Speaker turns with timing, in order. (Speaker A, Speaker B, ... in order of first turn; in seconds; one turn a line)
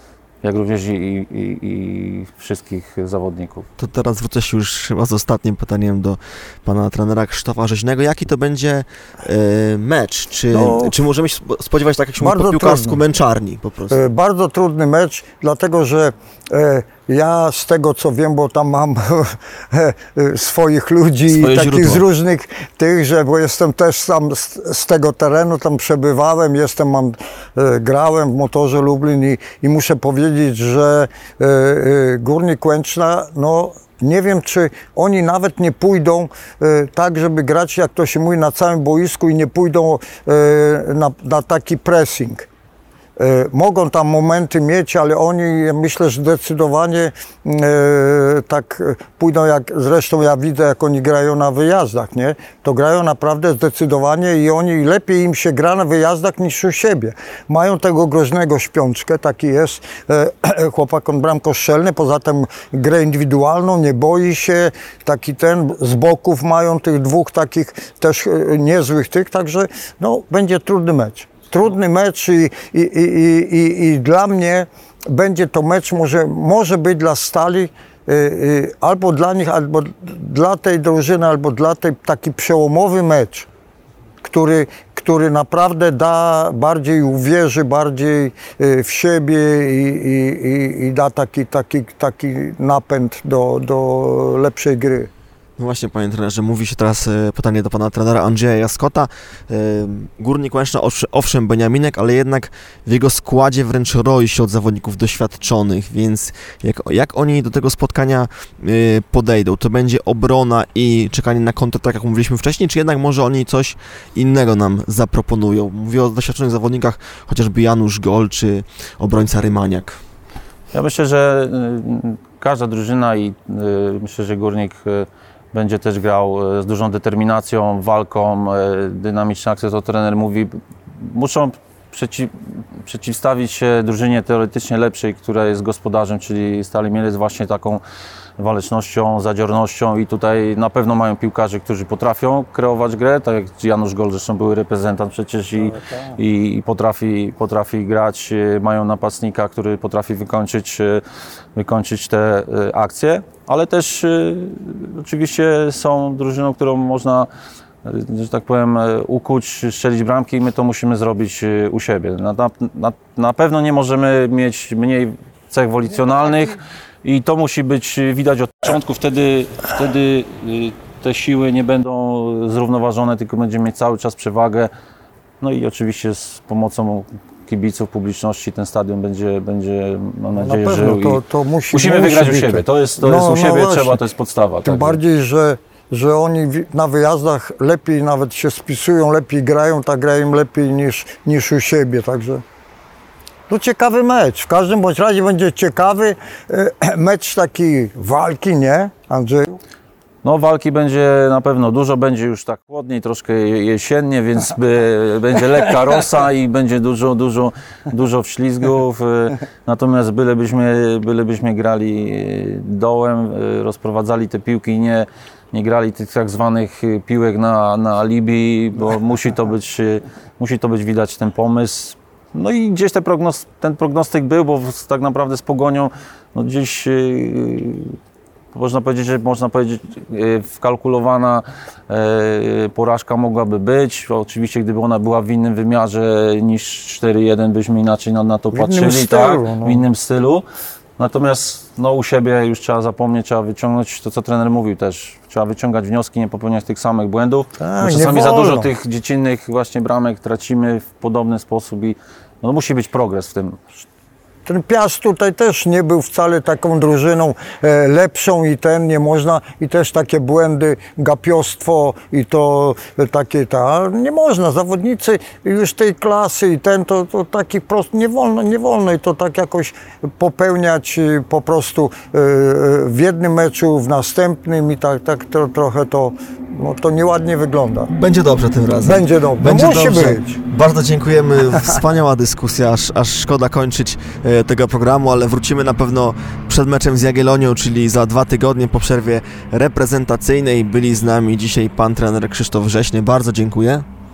Speaker A: 0.4-3.7
Speaker B: 3.8-14.0
Speaker C: 10.5-10.9
Speaker C: 12.2-13.0
Speaker C: 13.9-42.5
Speaker B: 21.3-22.0
Speaker C: 43.2-83.5
Speaker C: 84.2-95.1
Speaker B: 95.6-120.0
Speaker A: 120.7-132.3
Speaker A: 132.8-137.8
Speaker A: 138.4-151.0
Speaker C: 145.7-146.0
Speaker A: 151.6-157.3
Speaker A: 157.8-174.7
Speaker A: 175.4-185.0
Speaker C: 180.4-184.0
Speaker C: 184.6-192.4
Speaker C: 193.5-199.6
Speaker A: 200.2-228.0
Speaker A: 228.5-240.4
Speaker C: 238.5-239.8
Speaker A: 241.0-253.6
Speaker C: 247.6-248.7
Speaker C: 254.4-277.9
Speaker B: 277.9-293.9
Speaker C: 278.8-280.4